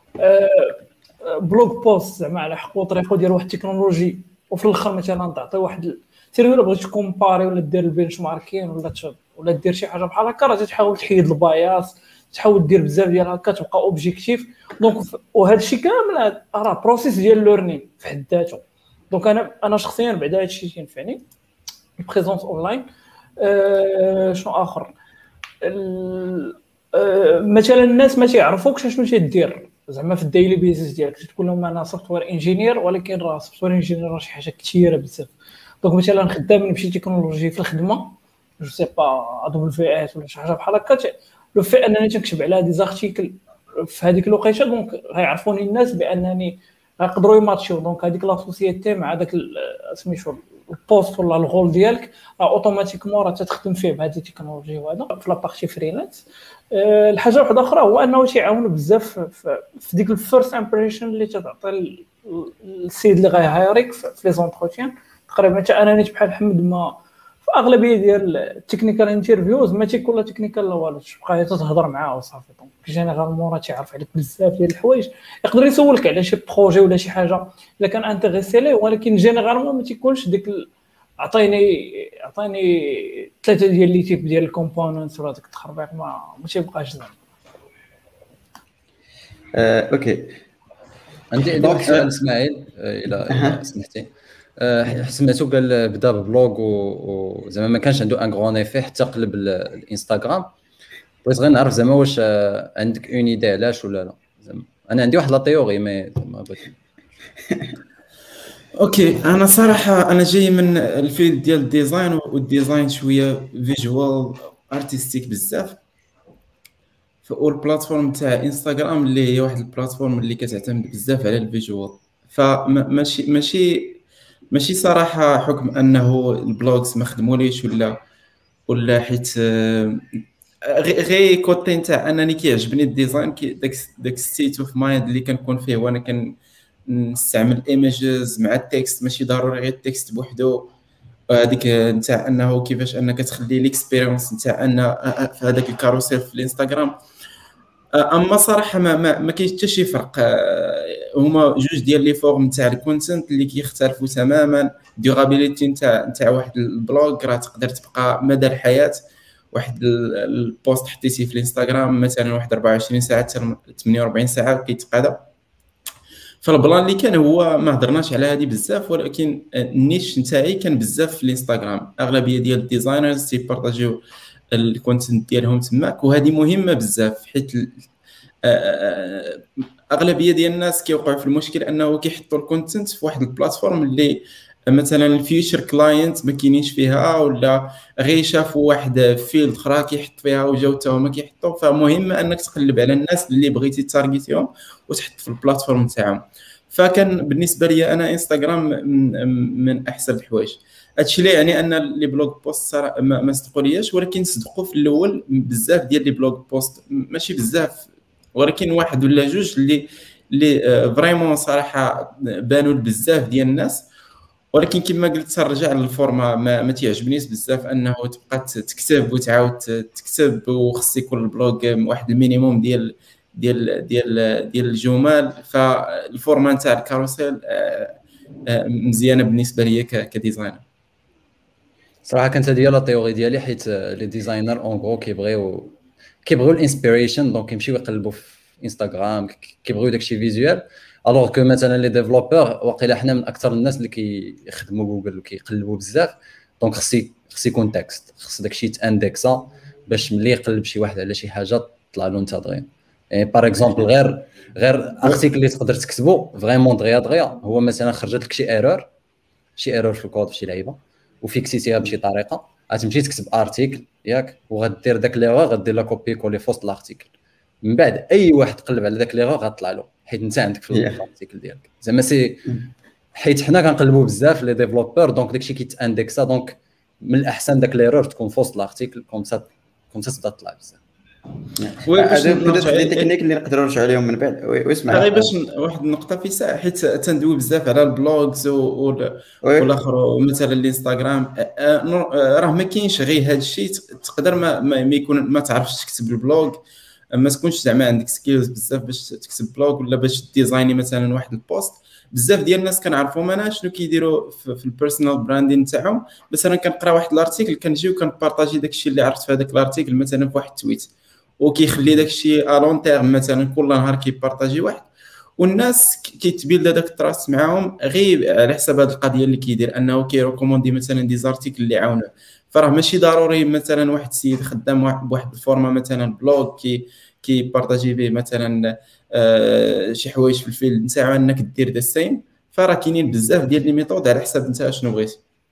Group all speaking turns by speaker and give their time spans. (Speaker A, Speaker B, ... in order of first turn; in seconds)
Speaker A: 0.2-21.2, 22.0-22.9, 23.4-24.9, 25.6-80.7, 81.2-87.2
Speaker B: 89.5-90.4, 91.5-92.1, 93.3-93.6, 270.7-271.0, 281.6-285.3, 289.4-289.7
Speaker C: 91.3-100.5, 101.2-106.8, 232.1-258.9, 259.6-272.4, 273.1-280.8
Speaker D: 108.7-115.8, 117.2-124.0, 124.5-128.0, 128.7-140.7, 141.3-147.0, 147.9-159.0, 159.5-165.2, 166.4-177.8, 178.4-213.8, 214.5-230.6, 281.8-283.1, 284.9-296.6, 297.1-335.2